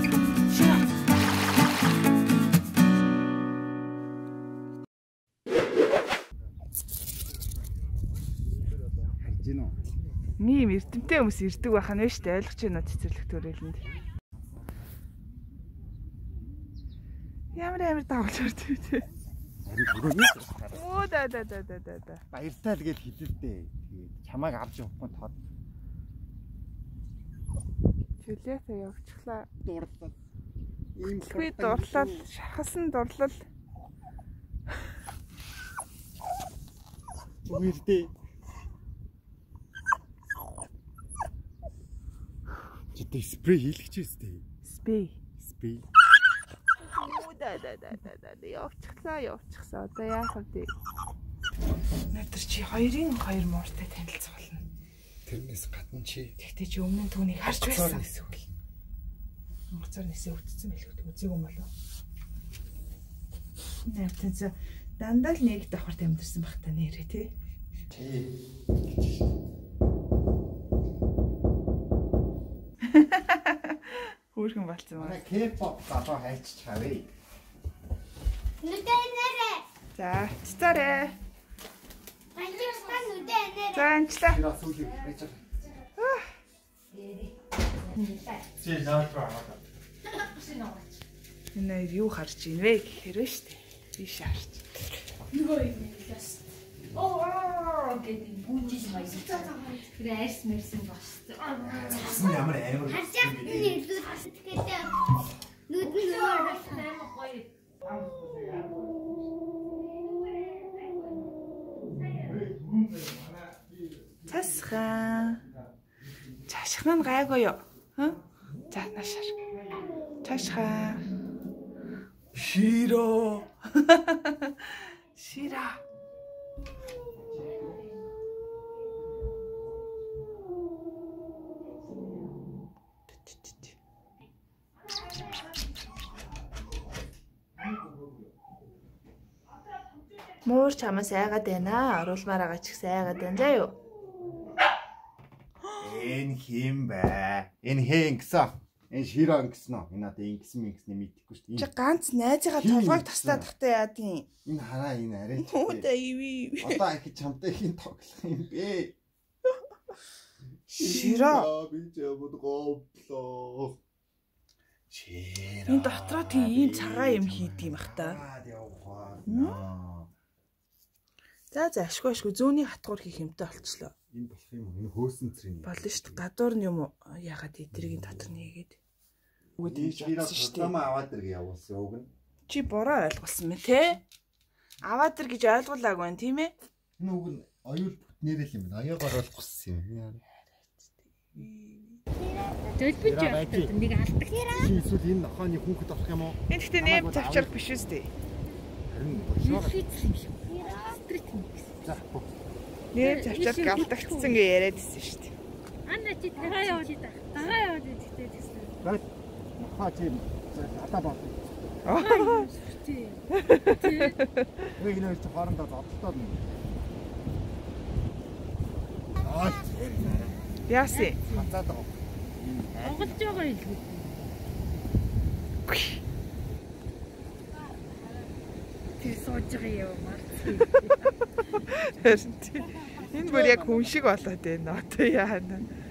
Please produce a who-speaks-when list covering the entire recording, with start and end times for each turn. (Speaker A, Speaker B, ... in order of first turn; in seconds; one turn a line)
Speaker A: 0.5-0.8
Speaker B: 9.2-9.8
Speaker A: 10.4-13.8
Speaker A: 17.5-19.1
Speaker B: 19.6-20.9
Speaker A: 20.7-22.2
Speaker B: 22.3-25.4
Speaker A: 28.2-29.5
Speaker B: 29.6-30.1
Speaker B: 30.9-32.3
Speaker A: 31.2-33.4
Speaker B: 37.5-38.1
Speaker B: 42.9-44.4
Speaker A: 44.6-45.2
Speaker B: 45.4-45.9
Speaker A: 46.8-50.7
Speaker A: 52.1-54.6
Speaker B: 55.2-56.4
Speaker A: 56.4-58.4
Speaker B: 57.5-58.6
Speaker A: 59.7-61.7
Speaker A: 63.9-67.3
Speaker B: 67.9-68.3
Speaker A: 72.8-75.2
Speaker B: 74.9-77.1
Speaker C: 78.6-79.6
Speaker A: 79.9-81.2
Speaker C: 82.3-83.8
Speaker D: 82.4-83.4
Speaker A: 83.7-84.4
Speaker B: 84.2-85.4
Speaker A: 86.0-86.3
Speaker D: 86.9-87.3
Speaker D: 87.8-88.4
Speaker B: 88.6-89.6
Speaker D: 90.1-91.0
Speaker A: 91.5-94.9
Speaker D: 95.3-102.3
Speaker A: 99.2-99.5
Speaker B: 101.5-104.0
Speaker C: 102.9-104.9
Speaker C: 105.7-106.8
Speaker D: 105.8-107.5
Speaker B: 107.9-108.8
Speaker B: 112.1-113.7
Speaker A: 114.3-115.5
Speaker A: 116.5-119.4
Speaker A: 120.2-121.0
Speaker A: 122.3-125.8
Speaker A: 133.1-133.7
Speaker A: 140.4-143.8
Speaker B: 145.8-151.7
Speaker A: 151.6-154.3
Speaker B: 152.5-153.5
Speaker B: 154.4-155.9
Speaker A: 155.4-156.8
Speaker B: 156.6-159.0
Speaker B: 160.7-163.8
Speaker A: 160.7-161.5
Speaker B: 164.9-170.1
Speaker A: 165.7-168.2
Speaker A: 169.2-169.6
Speaker A: 171.5-173.9
Speaker B: 174.1-176.2
Speaker A: 175.6-178.8
Speaker B: 177.7-178.4
Speaker A: 179.6-180.7
Speaker B: 179.6-182.1
Speaker A: 182.5-184.0
Speaker A: 184.8-186.5
Speaker B: 187.0-190.2
Speaker A: 191.3-192.0
Speaker D: 192.7-194.7
Speaker B: 193.0-193.8
Speaker B: 194.5-197.7
Speaker A: 196.5-198.1
Speaker B: 198.9-199.8
Speaker D: 199.2-202.0
Speaker B: 201.8-202.3
Speaker A: 202.9-205.3
Speaker D: 202.9-204.4
Speaker D: 205.8-208.8
Speaker B: 208.8-211.6
Speaker A: 211.8-212.5
Speaker D: 211.9-214.2
Speaker A: 213.3-214.6
Speaker B: 214.8-216.6
Speaker B: 219.2-220.4
Speaker A: 220.7-221.2
Speaker D: 220.9-221.5
Speaker B: 221.2-223.2
Speaker D: 222.8-224.3
Speaker A: 225.7-226.0
Speaker D: 229.0-231.1
Speaker A: 231.6-235.7
Speaker B: 233.0-234.3